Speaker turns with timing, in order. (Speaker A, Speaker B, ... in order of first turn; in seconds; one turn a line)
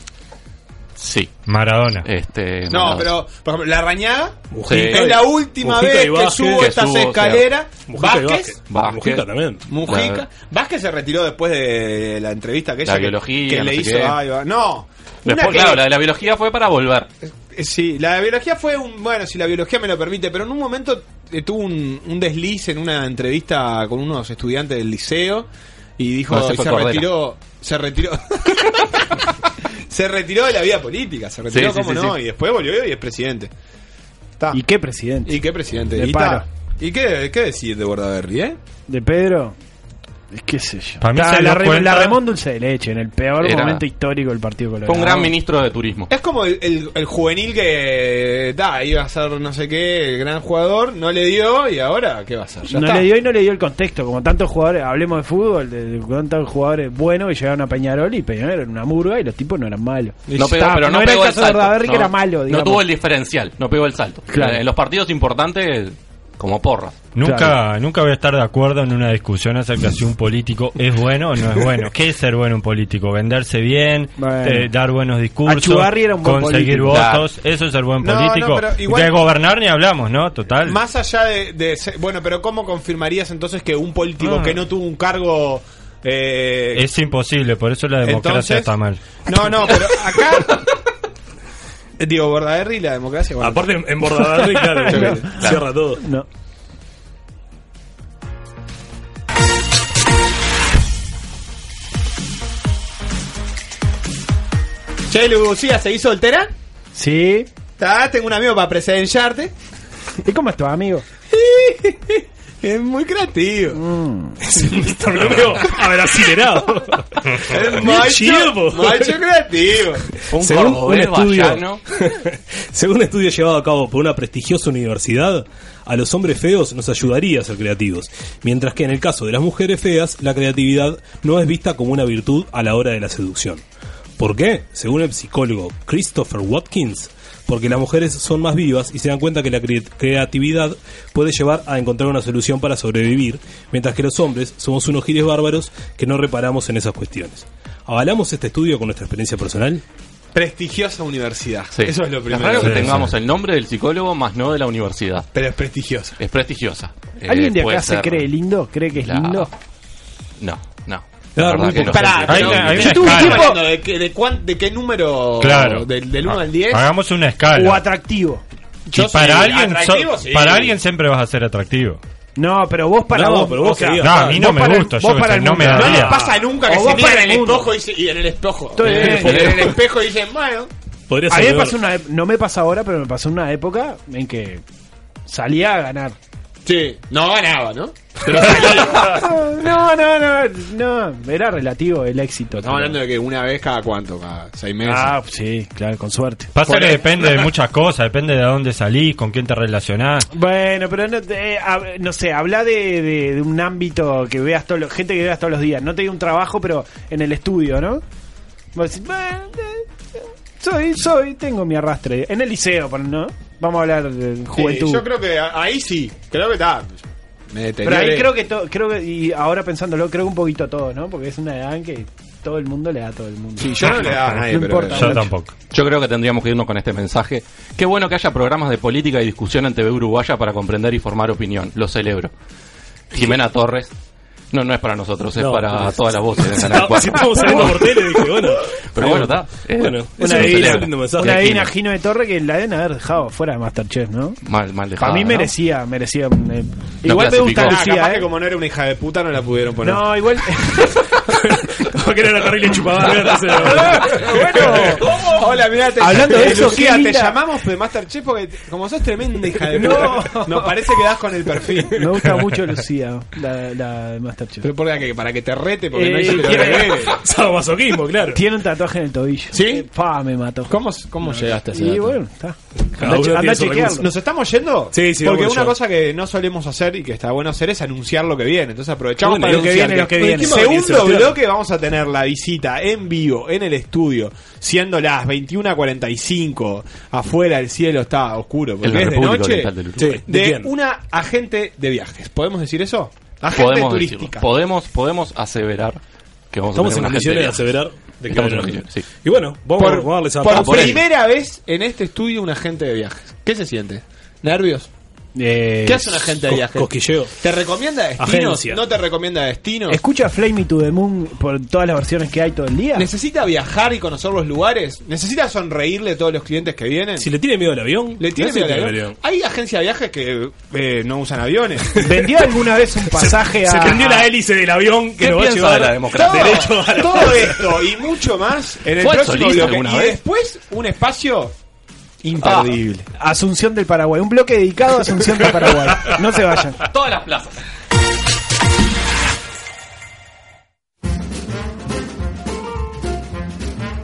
Speaker A: 1.0-1.3
Speaker B: 1.5-2.0
Speaker A: 2.0-3.1
Speaker C: 2.7-8.5
Speaker D: 4.5-6.7
Speaker A: 4.7-5.2
Speaker A: 6.6-7.4
Speaker D: 7.9-9.6
Speaker A: 8.7-9.2
Speaker C: 9.7-15.8
Speaker A: 9.8-10.2
Speaker A: 12.8-14.2
Speaker A: 15.2-17.1
Speaker C: 17.2-29.2
Speaker A: 26.3-27.1
Speaker C: 29.9-33.5
Speaker A: 31.5-32.2
Speaker E: 34.5-35.4
Speaker C: 35.2-38.6
Speaker E: 36.0-36.4
Speaker E: 38.9-39.5
Speaker E: 40.3-45.3
Speaker B: 41.0-42.2
Speaker A: 43.4-43.8
Speaker A: 44.9-46.1
Speaker C: 46.1-53.1
Speaker E: 52.7-62.8
Speaker A: 60.4-67.0
Speaker E: 64.3-64.6
Speaker B: 67.1-80.8
Speaker E: 67.2-67.6
Speaker E: 74.2-74.7
Speaker E: 75.5-77.0
Speaker A: 76.9-77.3
Speaker C: 78.0-79.2
Speaker C: 80.6-86.8
Speaker B: 86.7-89.0
Speaker C: 88.0-88.7
Speaker C: 89.3-90.6
Speaker C: 92.0-93.7
Speaker D: 93.4-96.0
Speaker E: 94.4-95.3
Speaker C: 94.9-95.4
Speaker E: 96.0-96.2
Speaker C: 105.1-106.5
Speaker E: 106.9-107.5
Speaker C: 107.8-109.5
Speaker E: 110.2-111.0
Speaker C: 111.3-113.8
Speaker E: 113.7-114.8
Speaker D: 114.4-119.2
Speaker C: 117.4-120.0
Speaker A: 120.3-121.8
Speaker D: 120.3-133.6
Speaker D: 134.2-149.8
Speaker C: 150.3-153.0
Speaker A: 151.7-155.3
Speaker B: 152.6-153.1
Speaker C: 155.3-156.2
Speaker A: 156.2-158.3
Speaker E: 157.2-159.5
Speaker A: 159.0-159.5
Speaker A: 160.4-162.8
Speaker D: 161.4-162.2
Speaker C: 161.7-166.9
Speaker B: 162.3-163.5
Speaker E: 162.7-163.6
Speaker B: 165.4-165.9
Speaker B: 166.7-167.8
Speaker E: 167.5-168.4
Speaker B: 168.9-172.0
Speaker C: 168.9-170.8
Speaker E: 172.4-177.7
Speaker D: 173.1-174.4
Speaker B: 174.0-176.2
Speaker C: 175.7-180.7
Speaker E: 178.7-179.5
Speaker D: 178.8-179.7
Speaker D: 181.1-181.8
Speaker E: 181.3-184.6
Speaker E: 185.3-186.2
Speaker C: 186.7-189.2
Speaker E: 188.6-193.0
Speaker C: 192.6-195.1
Speaker E: 194.8-196.5
Speaker B: 196.5-200.3
Speaker C: 196.7-197.5
Speaker E: 200.3-208.0
Speaker E: 208.7-209.8
Speaker E: 210.6-215.0
Speaker C: 214.5-218.3
Speaker E: 217.8-225.3
Speaker C: 223.6-225.2
Speaker B: 224.9-225.5
Speaker A: 225.7-232.3
Speaker A: 233.1-233.9
Speaker A: 234.5-238.0
Speaker D: 235.4-241.6
Speaker A: 238.9-241.7
Speaker E: 240.2-244.4
Speaker A: 244.4-245.5
Speaker E: 245.0-248.3
Speaker A: 247.0-247.8
Speaker C: 247.6-250.1
Speaker E: 249.8-251.0
Speaker D: 251.4-254.7
Speaker E: 253.6-255.1
Speaker C: 254.5-262.0
Speaker E: 256.0-257.4
Speaker E: 259.7-260.7
Speaker E: 261.9-264.6
Speaker C: 264.6-267.2
Speaker E: 265.9-267.0
Speaker D: 266.5-268.4
Speaker E: 268.3-274.1
Speaker C: 269.5-269.9
Speaker C: 270.7-272.2
Speaker D: 273.0-274.0
Speaker C: 274.0-289.7
Speaker D: 274.9-275.8
Speaker D: 279.2-281.4
Speaker E: 279.4-280.7
Speaker A: 288.8-290.2
Speaker D: 290.0-290.7
Speaker C: 290.3-294.4
Speaker A: 293.5-296.0
Speaker A: 296.5-297.7
Speaker D: 296.7-301.0
Speaker A: 298.3-299.0
Speaker C: 299.8-304.9
Speaker A: 300.5-301.0
Speaker E: 305.4-306.2
Speaker C: 305.9-310.0
Speaker D: 306.5-307.3
Speaker D: 308.2-308.8
Speaker E: 309.9-313.1
Speaker C: 312.9-317.3
Speaker D: 317.2-319.2
Speaker C: 318.2-321.9
Speaker E: 321.9-324.3
Speaker D: 323.1-327.6
Speaker A: 325.2-326.7
Speaker C: 326.1-331.5
Speaker A: 329.0-330.2
Speaker C: 332.2-333.1
Speaker A: 332.4-332.8
Speaker E: 333.2-336.8
Speaker A: 336.8-337.5